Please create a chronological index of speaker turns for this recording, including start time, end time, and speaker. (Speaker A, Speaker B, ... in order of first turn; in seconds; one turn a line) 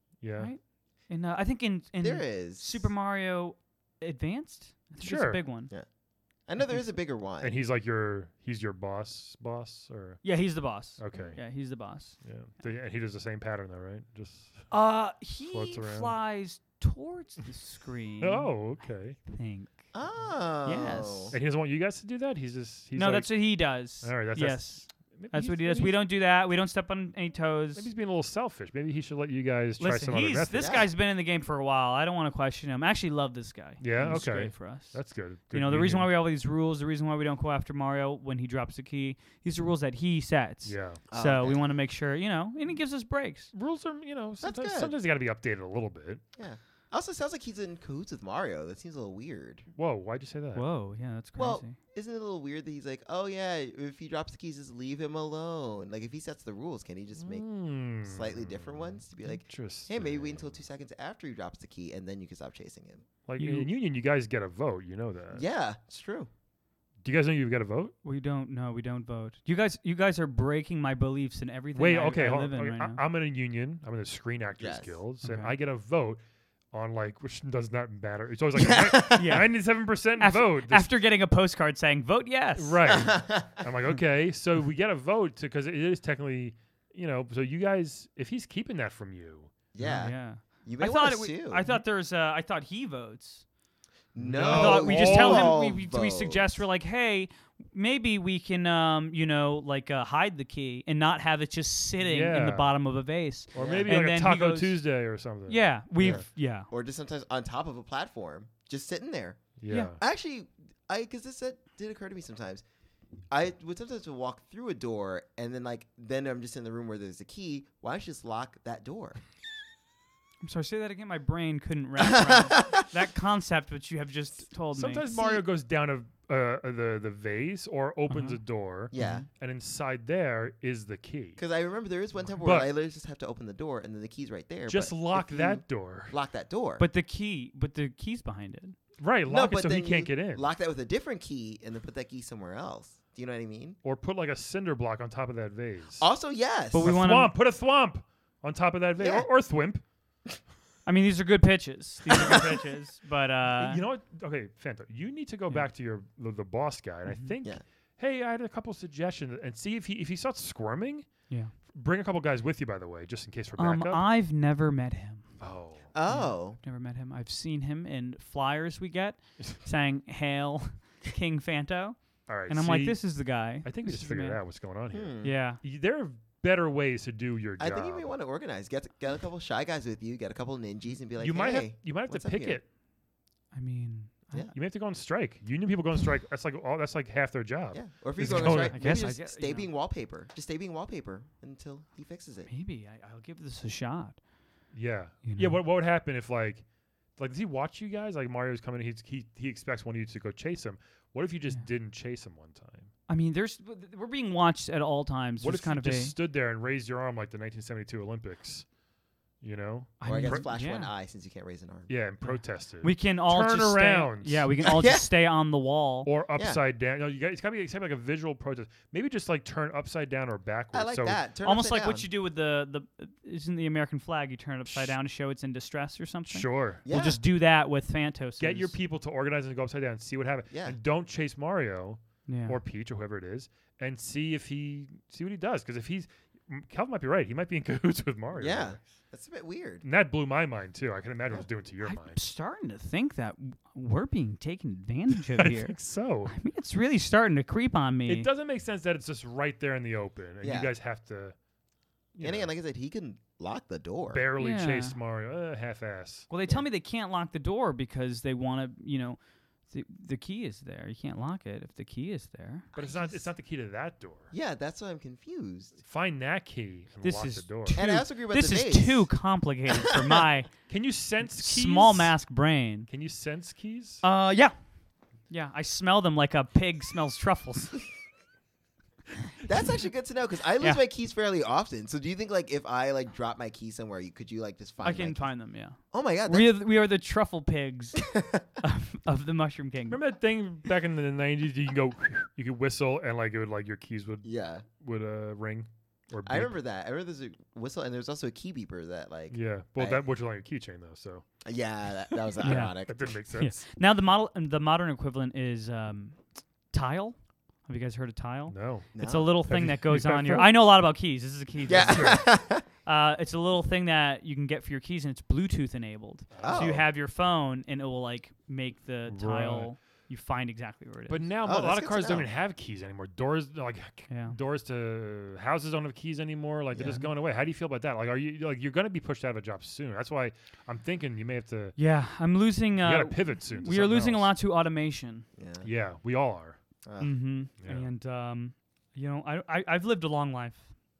Speaker A: 0.2-0.5
Speaker B: 0.4-5.7
Speaker C: 2.0-2.9
Speaker A: 5.0-5.4
Speaker C: 6.5-7.5
Speaker A: 7.4-11.4
Speaker B: 10.2-12.2
Speaker A: 12.2-14.7
Speaker B: 14.7-18.7
Speaker A: 15.5-16.1
Speaker A: 18.2-19.2
Speaker B: 19.2-19.8
Speaker C: 19.9-21.4
Speaker B: 20.6-21.3
Speaker A: 21.3-26.0
Speaker B: 22.9-27.9
Speaker A: 27.7-30.8
Speaker B: 29.8-35.0
Speaker C: 30.6-30.9
Speaker A: 33.8-36.1
Speaker B: 35.5-43.5
Speaker A: 40.6-41.0
Speaker C: 41.1-41.6
Speaker A: 43.5-46.2
Speaker C: 44.4-44.9
Speaker C: 46.4-49.6
Speaker A: 49.8-50.6
Speaker B: 50.5-51.8
Speaker C: 51.4-57.5
Speaker A: 57.2-60.5
Speaker C: 58.0-63.0
Speaker A: 63.3-65.4
Speaker B: 63.4-63.7
Speaker C: 65.3-66.3
Speaker A: 67.0-67.9
Speaker B: 68.0-73.0
Speaker A: 71.7-76.2
Speaker C: 74.6-74.9
Speaker B: 75.2-75.5
Speaker A: 76.7-80.9
Speaker C: 78.5-79.3
Speaker B: 79.1-79.5
Speaker B: 80.2-82.8
Speaker A: 82.5-90.1
Speaker C: 82.9-83.6
Speaker C: 89.7-91.6
Speaker B: 90.0-93.4
Speaker C: 94.1-96.6
Speaker A: 94.2-95.6
Speaker B: 94.5-104.8
Speaker A: 102.0-102.7
Speaker A: 103.5-106.2
Speaker C: 103.5-103.9
Speaker B: 105.5-106.7
Speaker C: 106.0-112.6
Speaker A: 109.6-110.0
Speaker C: 113.3-119.2
Speaker B: 120.4-125.1
Speaker C: 122.0-122.7
Speaker A: 124.7-131.4
Speaker B: 128.1-128.4
Speaker C: 128.9-129.2
Speaker B: 128.9-129.2
Speaker C: 131.4-136.8
Speaker A: 132.4-132.7
Speaker A: 134.7-136.2
Speaker B: 136.8-138.8
Speaker A: 139.0-140.5
Speaker C: 139.3-143.8
Speaker A: 143.8-146.1
Speaker C: 146.0-146.9
Speaker B: 146.7-147.3
Speaker A: 146.8-149.8
Speaker C: 149.0-149.3
Speaker B: 150.8-153.8
Speaker A: 153.5-164.0
Speaker B: 163.6-165.3
Speaker A: 165.4-165.9
Speaker C: 165.9-166.6
Speaker B: 166.1-174.4
Speaker A: 172.3-178.1
Speaker C: 174.9-175.3
Speaker B: 175.2-175.6
Speaker C: 177.6-182.6
Speaker A: 181.2-182.6
Speaker B: 183.5-184.5
Speaker A: 184.5-188.8
Speaker C: 187.7-192.5
Speaker B: 188.2-189.7
Speaker B: 192.5-194.2
Speaker A: 194.7-196.6
Speaker B: 195.2-195.6
Speaker A: 197.2-202.9
Speaker B: 203.1-206.1
Speaker A: 205.4-208.7
Speaker A: 209.4-210.4
Speaker B: 210.0-210.9
Speaker C: 210.0-211.9
Speaker A: 211.9-214.5
Speaker B: 212.2-216.1
Speaker C: 214.6-215.1
Speaker A: 216.0-221.2
Speaker C: 220.7-222.1
Speaker B: 221.4-228.7
Speaker A: 224.7-224.9
Speaker A: 226.3-226.8
Speaker C: 226.8-227.2
Speaker A: 228.4-238.8
Speaker C: 230.5-230.8
Speaker B: 232.3-232.6
Speaker C: 238.3-239.8
Speaker A: 239.8-242.2
Speaker B: 241.8-245.8
Speaker A: 245.4-246.3
Speaker B: 246.3-248.3
Speaker A: 248.1-251.3
Speaker C: 250.4-250.7
Speaker A: 252.1-252.5
Speaker C: 252.2-254.2
Speaker A: 254.1-256.3
Speaker B: 254.4-254.9
Speaker B: 256.3-262.7
Speaker C: 262.7-263.3
Speaker A: 262.7-264.3
Speaker C: 264.3-265.8
Speaker A: 265.8-267.8
Speaker B: 267.0-270.5
Speaker C: 267.7-269.1
Speaker A: 270.7-272.1
Speaker B: 271.3-272.9
Speaker A: 272.9-274.0
Speaker B: 274.0-274.5
Speaker B: 275.3-277.8
Speaker C: 279.4-285.3
Speaker B: 284.8-288.0
Speaker C: 285.9-286.5
Speaker C: 288.0-288.4
Speaker B: 288.6-290.0
Speaker A: 289.9-296.5
Speaker C: 294.2-294.6
Speaker C: 296.2-300.0
Speaker A: 299.3-301.2
Speaker C: 301.4-303.0
Speaker A: 302.4-303.6
Speaker B: 302.4-302.8
Speaker B: 303.3-312.2
Speaker A: 308.5-308.9
Speaker C: 308.9-309.3
Speaker A: 309.5-310.6
Speaker C: 311.7-312.6
Speaker A: 311.9-312.2
Speaker B: 312.8-321.2
Speaker A: 316.3-316.8
Speaker C: 316.4-316.8
Speaker A: 319.1-319.7
Speaker A: 321.1-331.8
Speaker C: 321.4-322.3
Speaker B: 324.1-324.3
Speaker C: 326.7-327.0
Speaker B: 331.8-335.2
Speaker A: 332.8-334.3
Speaker C: 335.4-335.7
Speaker A: 335.6-336.6
Speaker C: 336.8-337.1
Speaker B: 337.0-340.7
Speaker A: 337.6-337.9